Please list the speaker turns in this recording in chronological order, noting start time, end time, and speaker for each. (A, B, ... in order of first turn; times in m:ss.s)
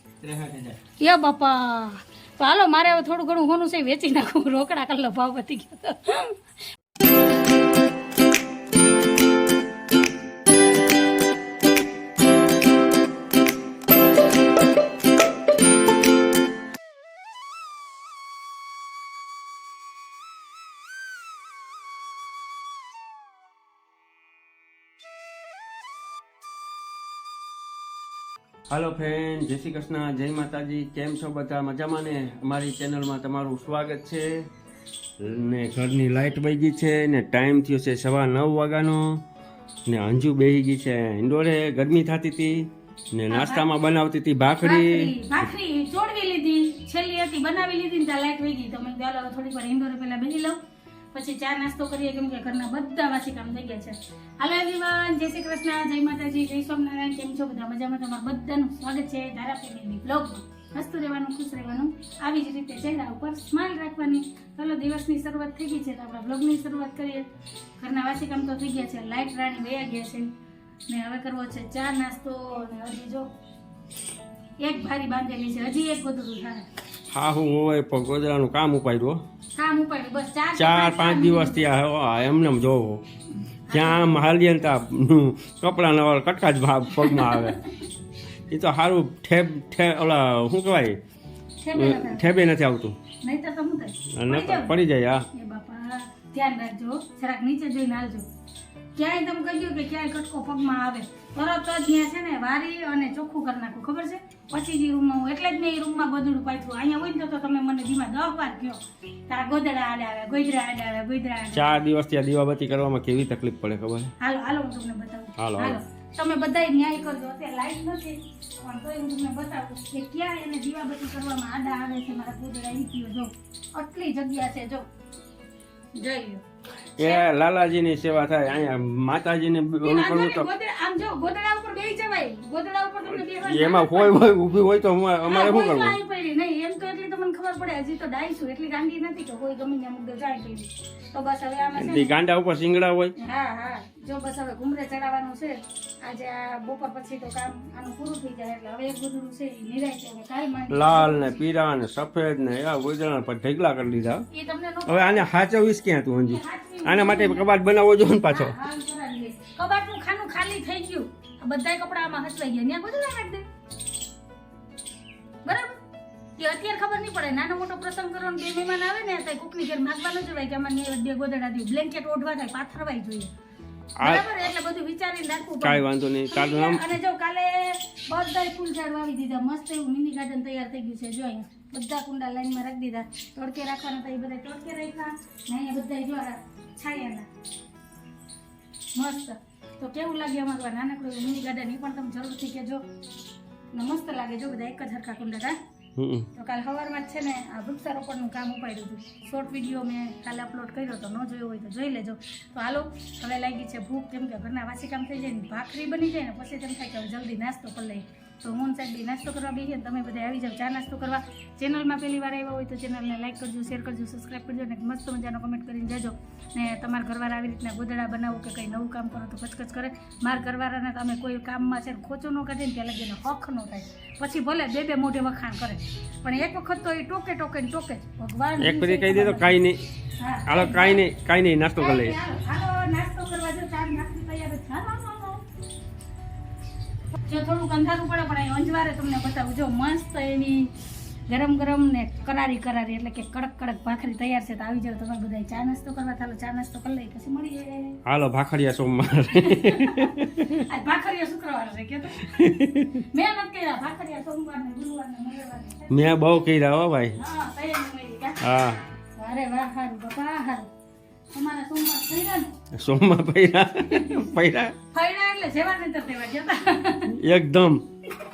0:00.2-0:00.8 A
0:01.0-0:06.4 B
0:28.7-0:34.4 A
0:35.2-0:39.2 A
0:39.9-0:45.3 A
0:43.3-0:43.7 B
0:44.6-0:50.6 B
0:51.1-1:10.3 B
1:10.9-1:13.3 B
1:14.6-1:16.7 B
1:17.1-1:19.2 A
1:19.6-1:21.6 B
1:20.6-1:23.0 A
1:23.7-1:24.2 B
1:23.7-1:27.6 A
1:27.1-1:27.5 B
1:28.5-1:31.0 A
1:31.6-1:32.4 B
1:31.7-1:33.0 A
1:33.2-1:34.7 B
1:34.1-1:35.3 A
1:35.3-1:38.3 B
1:39.0-1:51.8 B
1:51.5-1:54.1 A
1:54.2-2:04.9 B
1:55.4-1:55.8 A
2:06.0-2:06.4 B
2:07.0-2:07.2 B
2:07.0-2:10.5 A
2:09.8-2:14.2 B
2:13.1-2:16.0 A
2:15.3-2:22.1 B
2:21.8-2:23.1 A
2:23.2-2:31.4 B
2:30.7-2:34.2 A
2:34.3-2:35.3 B
2:34.8-2:38.6 A
2:36.3-2:37.5 B
2:38.2-2:43.4 B
2:45.4-2:45.8 B
2:46.4-2:53.3 B
2:54.0-2:54.2 A
2:54.0-3:07.3 B
2:55.6-2:56.9 A
3:08.9-3:12.8 B
3:13.7-3:15.6 B
3:16.0-3:16.3 A
3:16.3-3:49.6 B
3:48.6-3:49.8 A
3:50.2-3:51.0 B
3:50.4-3:52.2 A
3:51.8-3:55.4 B
3:57.3-4:00.7 B
4:01.3-4:08.0 B
4:08.0-4:10.6 A
4:09.4-4:12.5 B
4:12.2-4:13.0 A
4:13.1-4:16.1 B
4:15.9-4:17.2 A
4:17.2-4:18.4 B
4:18.4-4:18.8 A
4:19.2-4:20.7 B
4:21.3-4:22.6 B
4:22.7-4:24.8 A
4:24.9-4:27.1 B
4:27.1-4:27.8 A